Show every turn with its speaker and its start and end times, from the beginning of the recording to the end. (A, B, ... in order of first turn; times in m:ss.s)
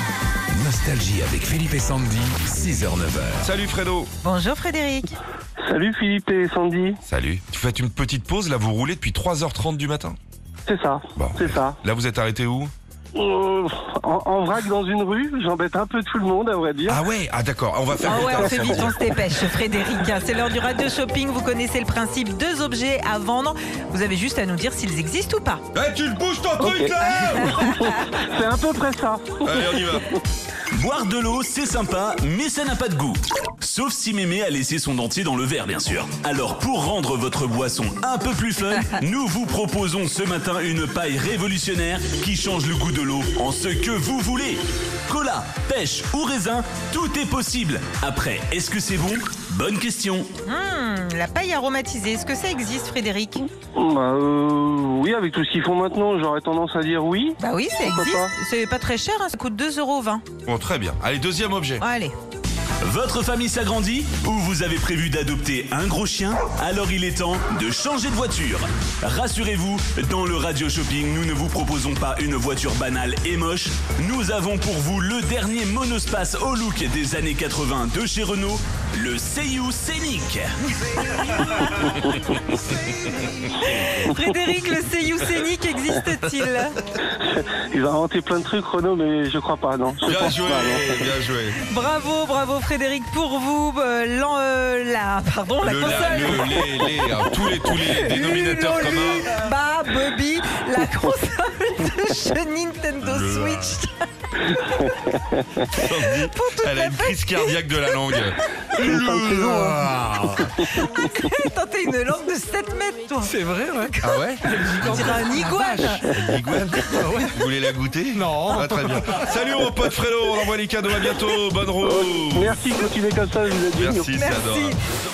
0:00.5-0:03.5 A
0:03.4-0:04.1 B
0:04.2-0:05.1 C
0:05.6-0:07.0 D
0:07.1-0:10.2 B
0:10.7-0:11.8 D
0:11.2-0:12.7 B
0:13.1-0:17.0 D
0:16.9-0:19.0 B
0:18.0-0:25.6 C
0:18.1-0:18.9 D
0:25.7-0:27.6 B
0:26.6-0:30.0 D
0:27.0-0:28.1 C
0:29.4-0:30.1 B
0:30.7-0:50.3 E
0:50.5-0:53.5 C
0:53.8-0:58.3 D
0:57.4-1:00.2 C
1:00.5-1:01.8 B
1:01.8-1:02.1 C
1:02.8-1:20.5 E
1:20.8-1:22.4 C
1:23.5-1:26.8 C
1:27.1-1:31.0 D
1:30.0-1:31.6 B
1:31.7-1:36.7 C
1:35.6-1:39.2 B
1:38.0-1:44.9 C
1:43.0-1:43.8 B
1:45.1-1:45.6 D
1:45.8-1:49.0 B
1:45.8-1:48.3 C
1:48.8-1:50.8 D
1:50.0-1:50.4 A
1:50.7-1:53.3 C
1:54.0-1:54.4 B
1:54.5-1:56.0 C
1:56.0-2:02.6 B
2:01.8-2:04.1 D
2:03.8-2:04.8 B
2:04.1-2:04.8 C